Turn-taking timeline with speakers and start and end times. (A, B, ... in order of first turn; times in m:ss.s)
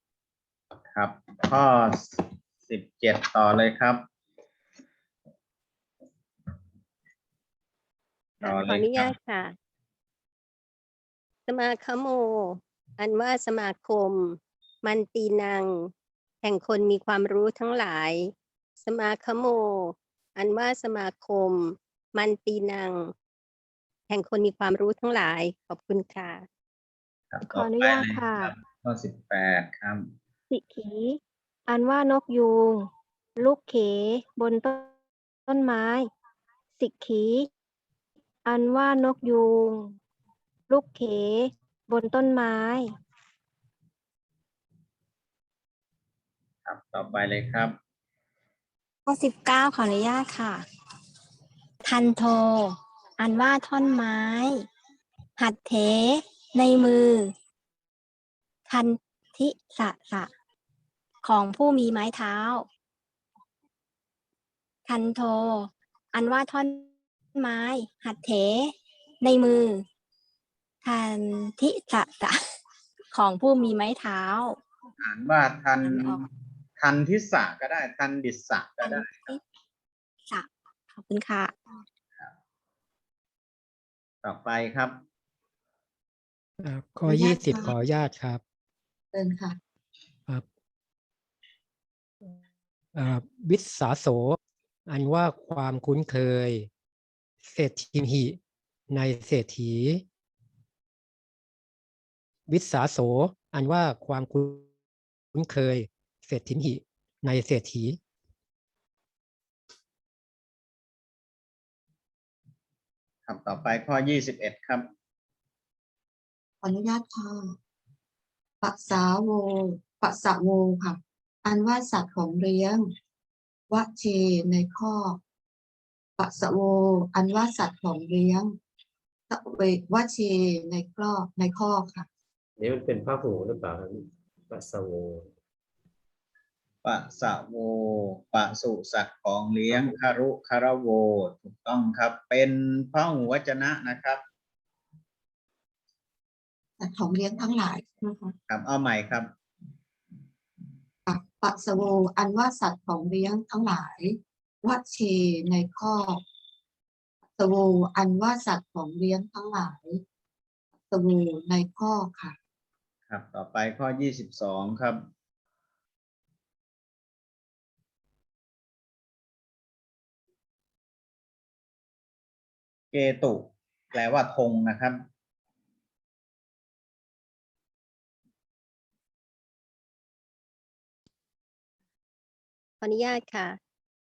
0:00.9-0:04.0 A
0:08.4-0:09.1 A
0:08.4-0:09.6 B
0:11.5-0:15.9 B
0:16.4-0:23.1 B
0:24.1-0:26.4 B
0:27.3-0:30.1 A
0:27.5-0:28.5 C
0:30.5-0:34.9 C
0:35.5-0:36.1 C
0:36.8-0:37.5 C
0:38.4-0:40.0 C
0:40.7-0:42.9 C
0:46.6-0:47.8 A
0:49.1-0:50.6 D
0:51.8-0:54.6 D
0:55.4-0:57.3 D
0:58.7-1:00.3 D
1:01.2-1:02.7 D
1:04.9-1:09.8 D
1:10.8-1:12.4 D
1:13.1-1:14.6 D
1:15.0-1:16.3 A
1:15.8-1:16.2 D
1:16.8-1:19.2 A
1:18.8-1:19.4 D
1:20.3-1:21.6 D
1:24.2-1:25.0 A
1:26.6-1:28.4 E
1:27.1-1:27.7 F
1:29.1-1:29.6 F
1:33.0-1:36.7 E
1:37.4-1:38.4 E
1:38.9-1:40.0 E
1:42.5-1:44.7 E
1:45.3-1:48.0 E
1:53.3-1:54.9 A
1:56.6-1:57.6 F
1:58.6-2:02.9 F
2:03.7-2:05.2 F
2:06.2-2:08.5 F
2:09.3-2:12.1 F
2:12.6-2:15.3 G
2:16.8-2:24.2 A
2:26.8-2:28.4 F
2:28.5-2:29.3 A
2:31.1-2:36.2 F
2:37.4-2:40.0 F
2:40.9-2:42.4 F
2:43.1-2:45.0 A
2:52.9-2:55.0 A
3:02.8-3:03.6 B